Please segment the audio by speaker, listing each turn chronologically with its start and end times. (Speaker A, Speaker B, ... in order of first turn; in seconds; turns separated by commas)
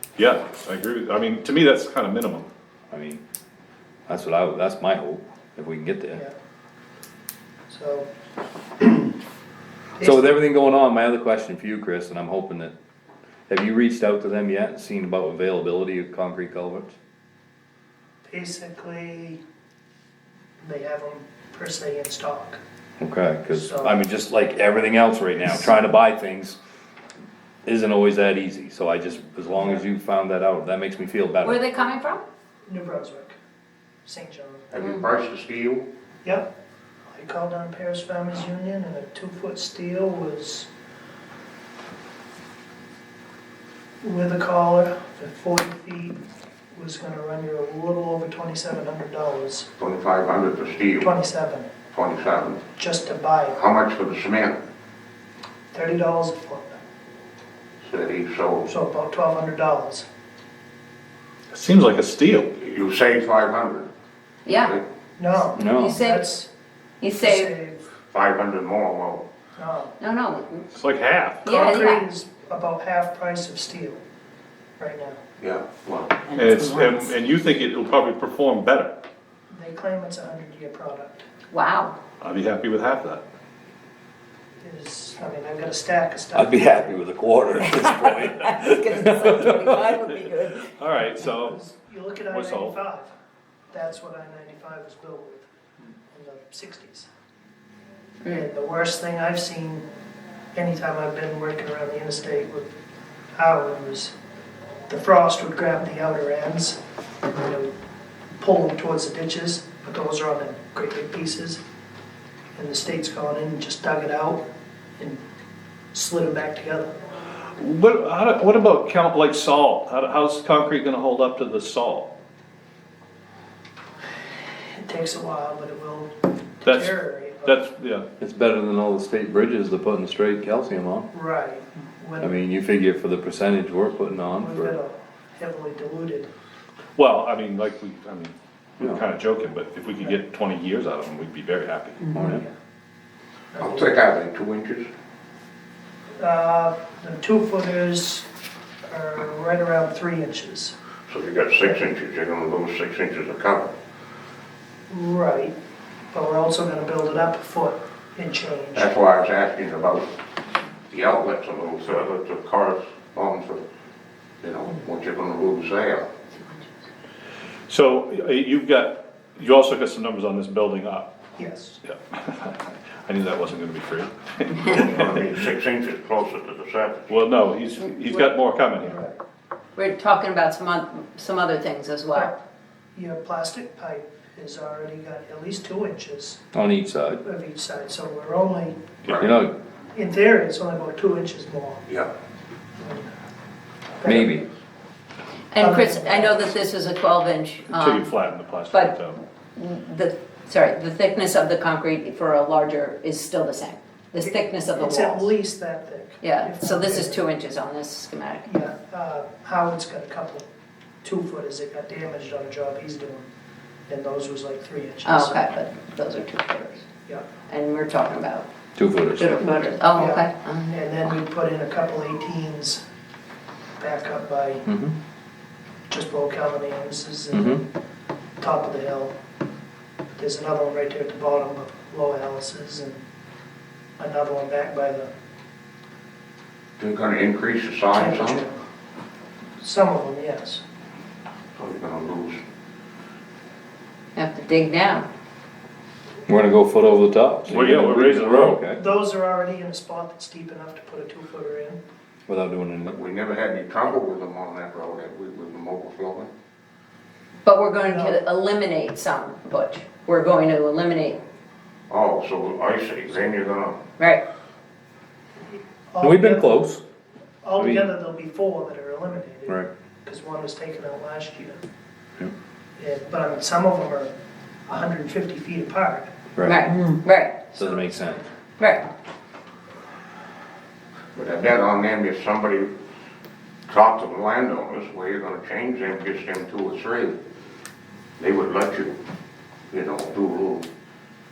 Speaker A: 0.2-2.5, Speaker B: 2.9-3.2, Speaker B: 4.1-6.2, Speaker C: 7.7-8.1, Speaker B: 10.0-12.7, Speaker B: 13.5-16.9, Speaker C: 18.2-19.4, Speaker C: 20.6-22.6, Speaker B: 23.0-26.6, Speaker C: 23.6-24.0, Speaker B: 27.6-31.6, Speaker D: 31.4-32.2, Speaker C: 32.7-33.4, Speaker C: 34.1-35.1, Speaker E: 34.7-35.9, Speaker C: 37.1-40.7, Speaker C: 44.0-46.2, Speaker C: 46.7-49.8, Speaker E: 49.8-50.5, Speaker C: 50.5-53.8, Speaker E: 51.9-52.6, Speaker E: 53.5-54.5, Speaker C: 55.7-56.8, Speaker C: 57.9-60.0, Speaker E: 58.3-58.7, Speaker A: 61.5-62.5, Speaker C: 62.7-63.3, Speaker E: 62.7-63.9, Speaker D: 64.5-64.8, Speaker C: 65.2-66.0, Speaker B: 65.5-66.0, Speaker D: 65.6-66.3, Speaker D: 67.0-67.5, Speaker C: 67.2-69.8, Speaker E: 68.3-69.0, Speaker D: 70.0-70.6, Speaker A: 70.7-71.5, Speaker D: 71.4-72.0, Speaker C: 71.5-73.9, Speaker E: 75.4-76.1, Speaker A: 76.3-78.9, Speaker C: 79.5-81.2, Speaker D: 81.5-82.0, Speaker A: 82.2-83.2, Speaker C: 84.6-86.9, Speaker B: 86.3-89.7, Speaker D: 87.7-90.7, Speaker A: 90.8-91.7, Speaker A: 92.3-92.8, Speaker C: 92.6-93.0, Speaker C: 93.7-95.4, Speaker C: 96.1-97.0, Speaker D: 98.2-98.5, Speaker C: 98.5-99.8, Speaker C: 100.5-102.7, Speaker C: 103.3-104.1, Speaker C: 104.9-107.7, Speaker C: 108.4-111.6, Speaker C: 112.6-114.4, Speaker C: 115.9-116.9, Speaker A: 117.6-122.1, Speaker C: 124.8-126.1, Speaker A: 126.6-128.1, Speaker C: 126.7-127.4, Speaker B: 128.2-131.1, Speaker C: 131.1-132.3, Speaker B: 132.2-134.8, Speaker C: 134.4-136.3, Speaker A: 137.0-142.2, Speaker B: 142.1-142.4, Speaker C: 143.6-144.8, Speaker E: 143.6-144.8, Speaker C: 146.2-148.2, Speaker C: 148.9-153.7, Speaker E: 152.0-153.4, Speaker C: 154.9-155.6, Speaker C: 156.1-159.4, Speaker E: 158.7-160.1, Speaker E: 161.1-163.6, Speaker E: 164.4-166.0, Speaker C: 164.7-165.1, Speaker A: 167.7-171.1, Speaker C: 171.4-171.8, Speaker A: 171.8-175.2, Speaker C: 174.7-176.2, Speaker E: 175.0-177.1, Speaker A: 177.1-179.0, Speaker D: 179.8-182.3, Speaker C: 183.0-186.3, Speaker B: 186.5-187.2, Speaker C: 187.2-188.7, Speaker B: 189.2-189.5, Speaker C: 189.9-192.1, Speaker C: 192.8-193.1, Speaker B: 194.0-194.5, Speaker D: 195.5-198.2, Speaker C: 195.7-196.1, Speaker A: 197.7-199.2, Speaker D: 199.6-205.3, Speaker C: 204.8-207.1, Speaker D: 206.2-208.5, Speaker C: 208.5-210.4, Speaker C: 211.0-213.3, Speaker C: 213.9-215.3, Speaker D: 215.0-216.8, Speaker D: 217.5-218.5, Speaker B: 218.8-219.4, Speaker D: 219.1-220.7, Speaker C: 220.7-222.8, Speaker C: 223.8-224.6, Speaker B: 224.7-224.9, Speaker C: 225.9-227.4, Speaker B: 227.3-227.6, Speaker C: 228.4-229.1, Speaker C: 230.2-233.0, Speaker C: 234.0-235.1, Speaker E: 236.8-238.5, Speaker C: 237.8-238.4, Speaker C: 239.6-240.6, Speaker C: 241.6-242.1, Speaker E: 241.6-242.4, Speaker D: 244.2-245.1, Speaker B: 246.3-248.8, Speaker A: 247.5-248.6, Speaker C: 248.8-251.8, Speaker B: 252.3-253.0, Speaker C: 252.9-254.0, Speaker E: 253.0-256.3, Speaker D: 257.4-261.2, Speaker E: 261.9-263.8, Speaker C: 261.9-263.4, Speaker C: 265.9-266.5, Speaker B: 266.0-266.8, Speaker C: 267.4-271.6, Speaker B: 267.6-267.9, Speaker C: 272.8-274.1, Speaker C: 274.7-276.1, Speaker B: 276.4-276.6, Speaker D: 276.4-277.6, Speaker B: 277.5-278.2, Speaker D: 278.6-278.9, Speaker E: 281.2-282.6, Speaker C: 281.5-281.8, Speaker E: 283.7-287.1, Speaker C: 285.9-286.6, Speaker E: 288.2-288.9, Speaker E: 289.7-290.6